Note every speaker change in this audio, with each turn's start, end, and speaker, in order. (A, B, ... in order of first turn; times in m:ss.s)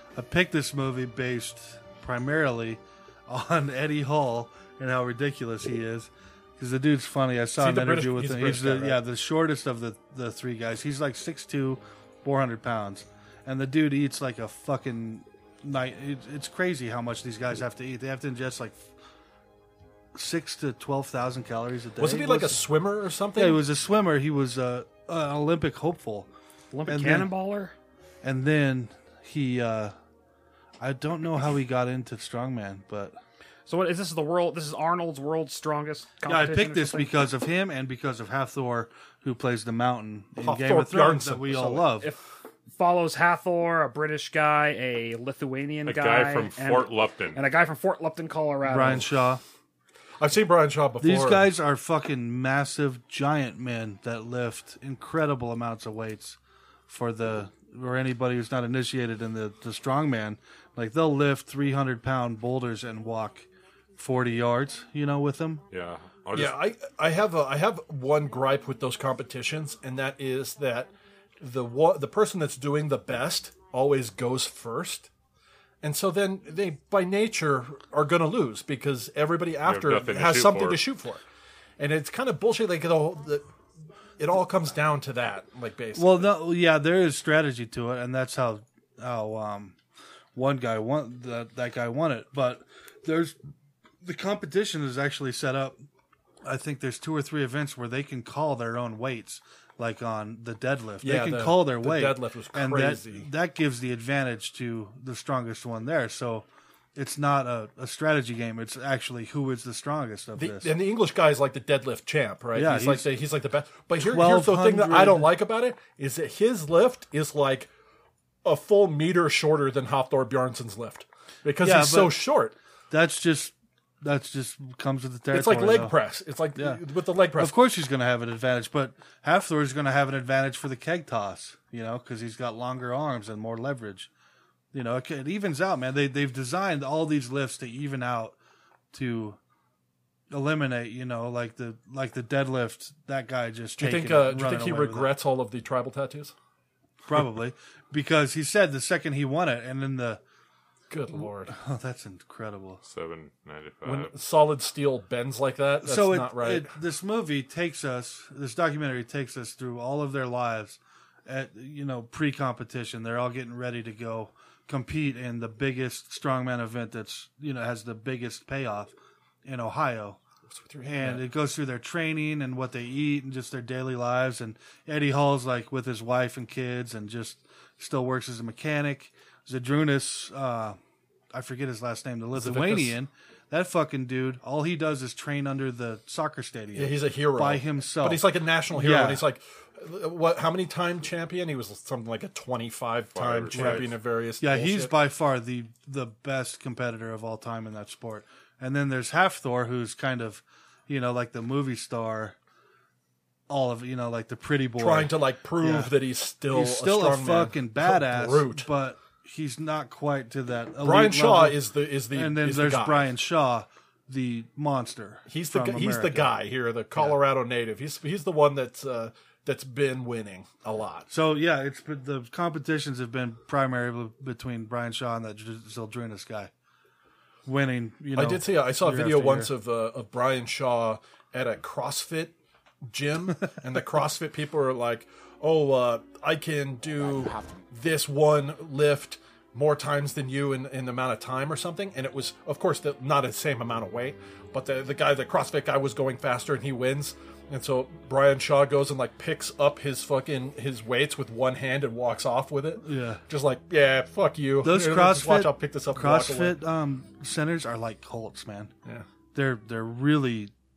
0:00.2-0:18.8 A
0:07.6-0:09.0 B
0:20.1-0:22.6 A
0:22.0-0:23.6 B
0:23.4-0:26.3 A
0:26.7-0:27.7 C
0:26.9-0:27.3 A
0:28.2-0:29.9 A
0:30.8-0:33.2 A
0:33.7-0:37.1 C
0:36.2-0:42.1 A
0:40.4-0:41.9 B
0:42.7-0:49.1 C
0:45.8-0:47.4 D
0:48.6-0:49.4 A
0:50.2-0:51.5 B
0:51.0-1:05.6 A
1:05.7-1:06.6 D
1:06.3-1:15.1 B
1:15.8-1:21.2 B
1:19.6-1:20.8 D
1:21.8-1:23.5 B
1:24.2-1:26.3 B
1:26.0-1:29.8 A
1:30.3-1:33.4 A
1:34.0-1:35.8 A
1:36.4-1:50.7 A
1:41.0-1:43.3 B
1:50.4-1:57.7 B
1:52.5-1:53.1 A
1:54.0-1:55.3 A
1:58.4-2:02.5 B
2:01.6-2:02.2 A
2:02.9-2:06.0 A
2:05.3-2:07.5 B
2:07.4-2:14.1 A
2:14.7-2:18.3 A
2:18.9-2:19.4 A
2:20.3-2:25.1 A
2:23.8-2:26.3 B
2:27.0-2:30.2 A
2:30.9-2:31.5 B
2:31.5-2:32.8 A
2:32.8-2:34.1 D
2:33.8-2:36.7 B
2:35.8-2:48.9 A
2:49.4-2:50.2 A
2:50.5-2:51.3 B
2:50.8-3:00.8 A
3:01.3-3:09.2 A
3:02.3-3:03.0 B
3:06.7-3:15.0 B
3:13.1-3:13.9 D
3:13.5-3:22.3 A
3:23.5-3:25.9 A
3:24.8-3:28.7 B
3:26.5-3:31.6 A
3:30.8-3:33.1 B
3:32.1-3:36.3 A
3:35.3-3:41.1 B
3:41.1-3:46.5 A
3:47.4-3:49.5 A
3:48.1-4:16.6 B
4:12.8-4:13.2 A
4:14.6-4:18.7 A
4:19.3-4:20.5 A